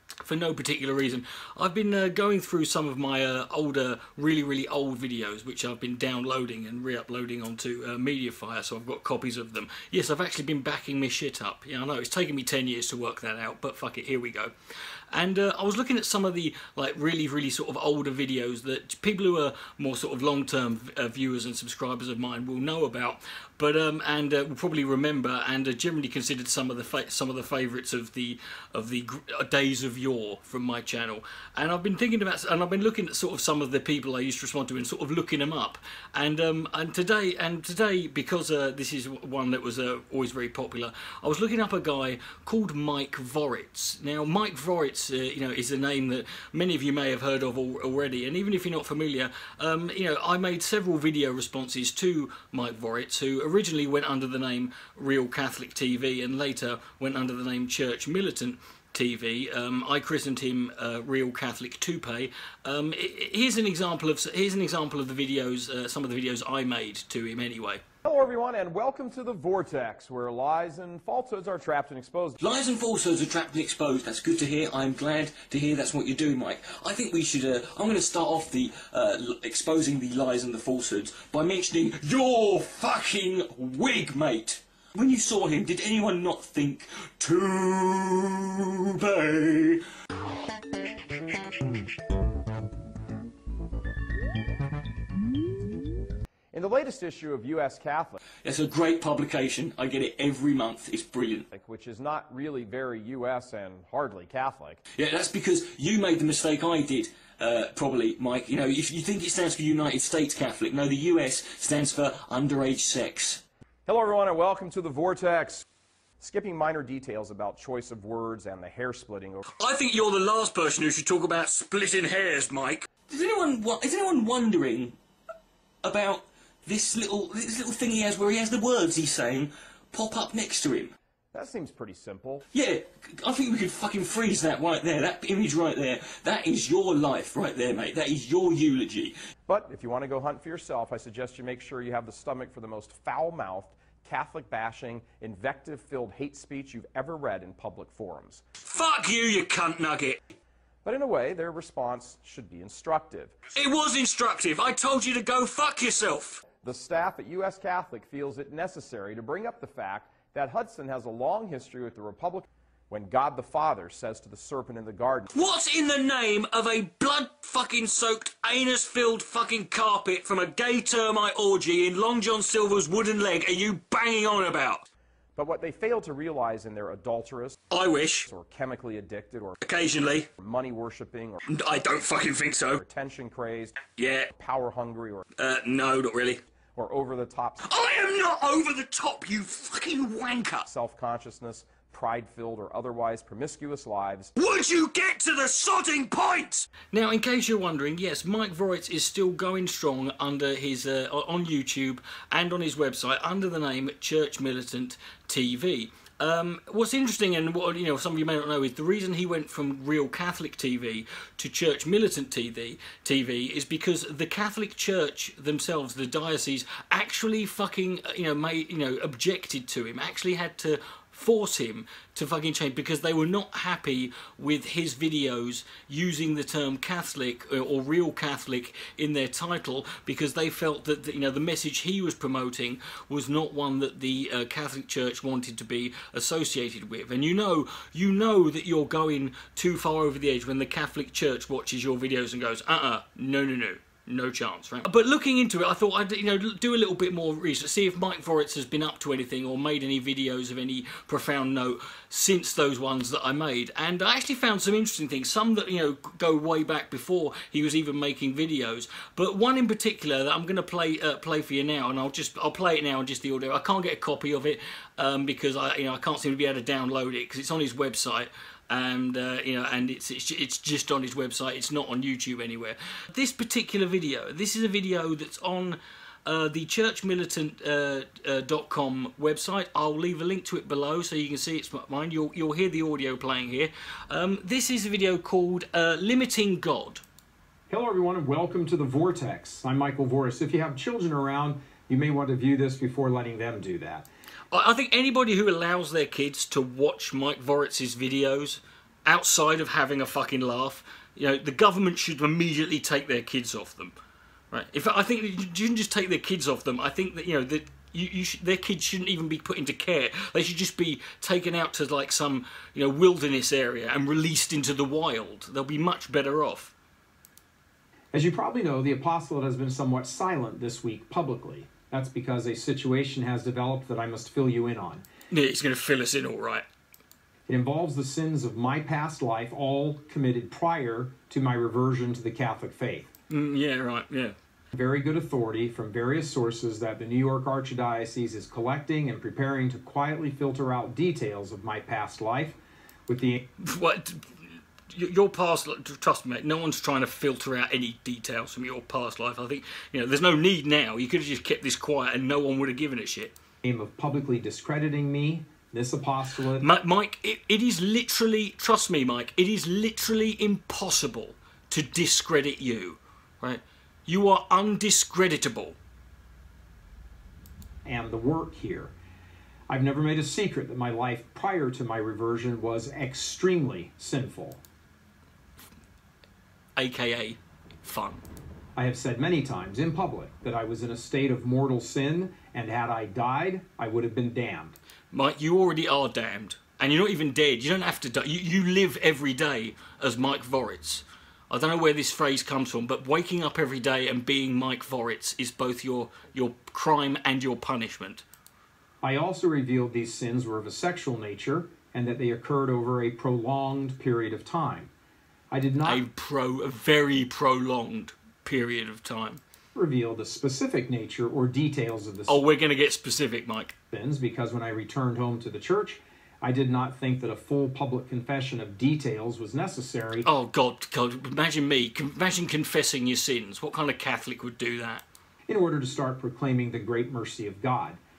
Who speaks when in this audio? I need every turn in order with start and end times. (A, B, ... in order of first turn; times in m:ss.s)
0:00.2-0:14.5 A
0:15.1-1:07.8 A
1:08.0-1:12.4 B
1:12.4-1:29.8 A
1:36.5-1:38.2 B
1:38.4-1:41.5 A
1:41.5-1:44.8 B
1:45.0-1:53.4 A
1:53.9-1:55.6 B
1:56.2-1:59.4 B
1:59.6-2:05.0 A
2:05.8-2:11.0 A
2:11.3-2:12.5 B
2:12.5-2:19.1 A
2:19.5-2:28.4 B
2:28.6-2:30.2 A
2:30.8-2:33.4 B
2:33.6-2:36.4 A
2:36.6-2:45.3 B
2:45.3-2:54.9 A
2:55.4-2:57.6 B
2:57.7-2:58.3 A
2:58.3-2:59.6 B
2:59.6-3:00.3 A
3:00.4-3:01.5 B
3:01.5-3:02.8 A
3:02.8-3:03.8 B
3:03.8-3:04.3 A
3:04.3-3:05.3 B
3:05.4-3:06.4 A
3:06.7-3:07.6 B
3:07.6-3:10.7 A
3:10.6-3:14.3 B
3:14.4-4:47.0 A
4:47.7-4:54.1 C
4:54.5-5:04.0 A
5:04.5-5:16.7 A
5:18.1-5:25.0 C
5:25.3-5:26.7 A
5:27.5-5:33.1 C
5:33.3-5:34.4 A
5:34.7-5:43.4 C
5:43.6-5:53.4 A
5:53.6-5:56.7 C
5:56.6-6:05.8 A
6:07.8-6:08.9 C
6:09.7-6:14.6 C
6:16.8-6:18.2 A
6:18.8-6:24.8 C
6:25.1-6:38.2 A
6:39.0-6:44.9 C
6:45.5-6:46.0 C
6:45.8-6:49.4 A
6:49.8-6:52.4 C
6:52.3-6:53.7 A
6:53.9-7:00.3 C
7:00.2-7:05.0 A
7:05.5-7:08.0 C